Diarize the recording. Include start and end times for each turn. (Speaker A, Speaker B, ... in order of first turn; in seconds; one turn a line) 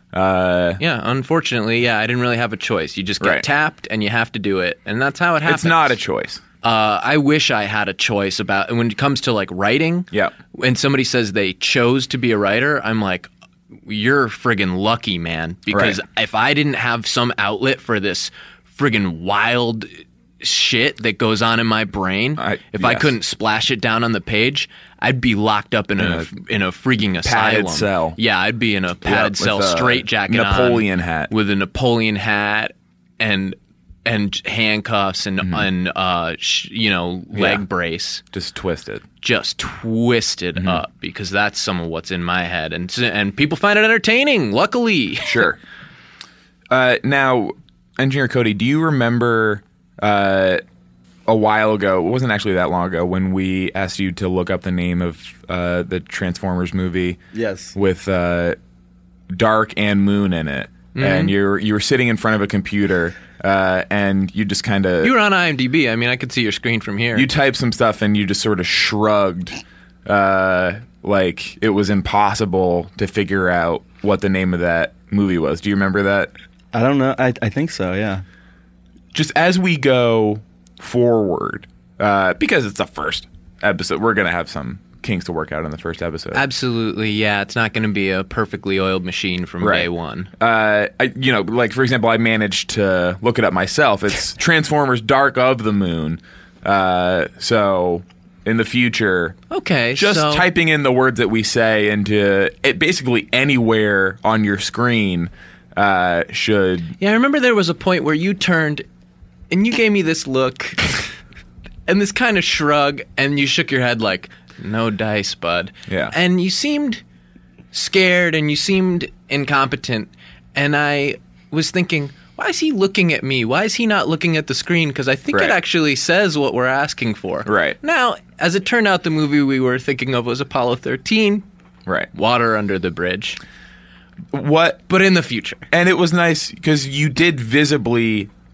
Speaker A: 0.1-0.8
Speaker B: 0.8-6.0
Speaker A: 3.2-3.5
Speaker A: 5.5-6.4
Speaker B: 6.6-13.3
Speaker B: 13.9-38.2
Speaker A: 15.7-16.0
Speaker A: 22.4-23.1
Speaker A: 26.0-26.4
Speaker A: 27.2-28.2
Speaker A: 29.0-31.3
Speaker A: 35.4-35.7
Speaker A: 37.3-37.6
Speaker A: 38.3-39.0
Speaker B: 39.2-45.4
Speaker A: 40.6-40.8
Speaker A: 45.2-45.6
Speaker A: 46.7-50.6
Speaker A: 51.3-57.2
Speaker C: 57.3-57.7
Speaker A: 57.8-58.6
Speaker A: 59.3-65.2
Speaker B: 61.0-61.3
Speaker B: 65.0-67.3
Speaker A: 67.2-76.3
Speaker C: 76.7-78.2
Speaker A: 79.1-86.4
Speaker B: 86.3-90.3
Speaker A: 89.6-99.4
Speaker B: 99.5-100.5
Speaker A: 99.9-107.0
Speaker B: 107.0-108.8
Speaker B: 109.5-111.0
Speaker B: 111.9-117.0
Speaker A: 115.9-116.2
Speaker B: 117.7-131.4
Speaker A: 125.3-125.6
Speaker A: 127.5-127.8
Speaker B: 132.1-133.4
Speaker A: 134.3-134.8
Speaker B: 134.9-135.7
Speaker A: 135.7-138.3